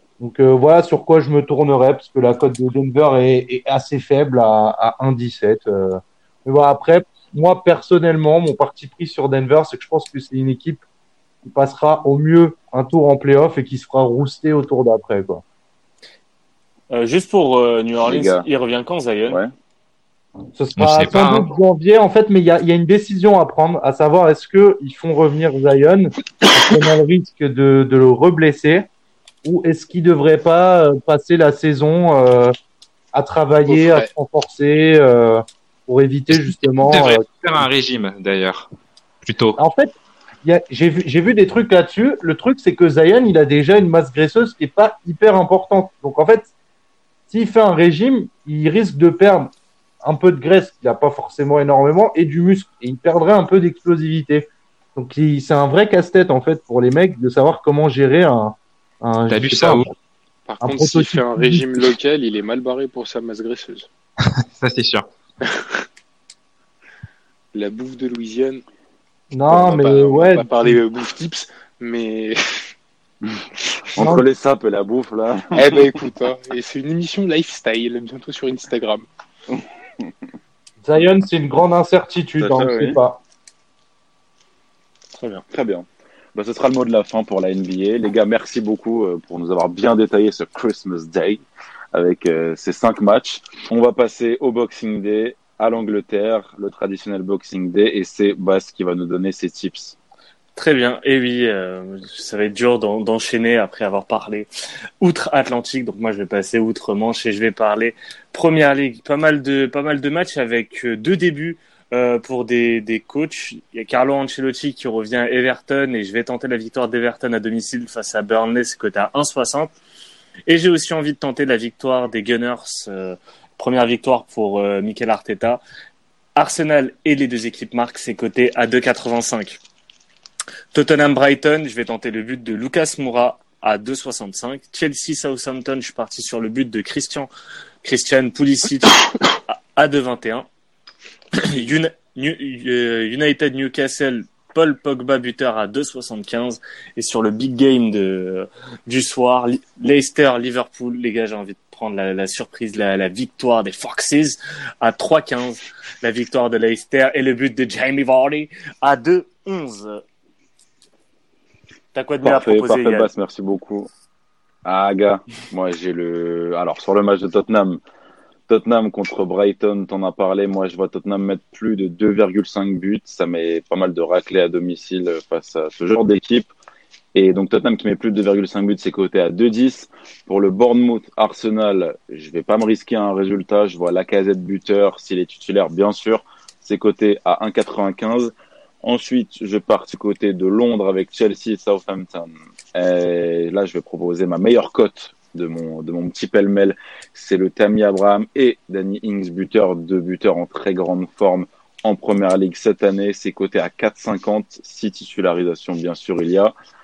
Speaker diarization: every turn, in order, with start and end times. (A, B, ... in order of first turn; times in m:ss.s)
0:00.2-0:10.8 A
0:11.4-0:15.4 A
0:16.9-0:19.4 B
0:18.0-0:18.5 C
0:20.6-0:28.9 A
0:20.8-0:21.5 D
0:29.4-0:32.5 A
0:33.1-0:37.7 A
0:33.6-0:34.1 E
0:36.3-0:38.7 D
0:39.2-0:39.6 D
0:39.6-0:39.9 A
0:40.4-0:46.5 A
0:47.3-0:59.9 A
0:59.3-0:59.9 D
1:00.5-1:03.9 E
1:00.6-1:01.8 A
1:04.2-1:05.1 D
1:05.4-1:05.8 E
1:07.5-1:08.6 E
1:09.3-1:10.7 A
1:09.5-1:12.4 E
1:14.0-1:15.7 C
1:14.0-1:14.2 A
1:15.5-1:19.1 E
1:20.8-1:23.2 A
1:22.4-1:23.0 C
1:25.5-1:40.0 C
1:40.6-1:44.5 B
1:45.0-1:59.7 B
2:00.5-2:05.6 B
2:06.4-2:09.6 B
2:10.7-2:17.3 B
2:17.8-2:20.5 B
2:21.3-2:40.0 B
2:41.9-2:43.1 B
2:42.2-2:43.9 C
2:44.6-2:47.8 C
2:48.5-2:56.5 C
2:57.2-3:26.5 C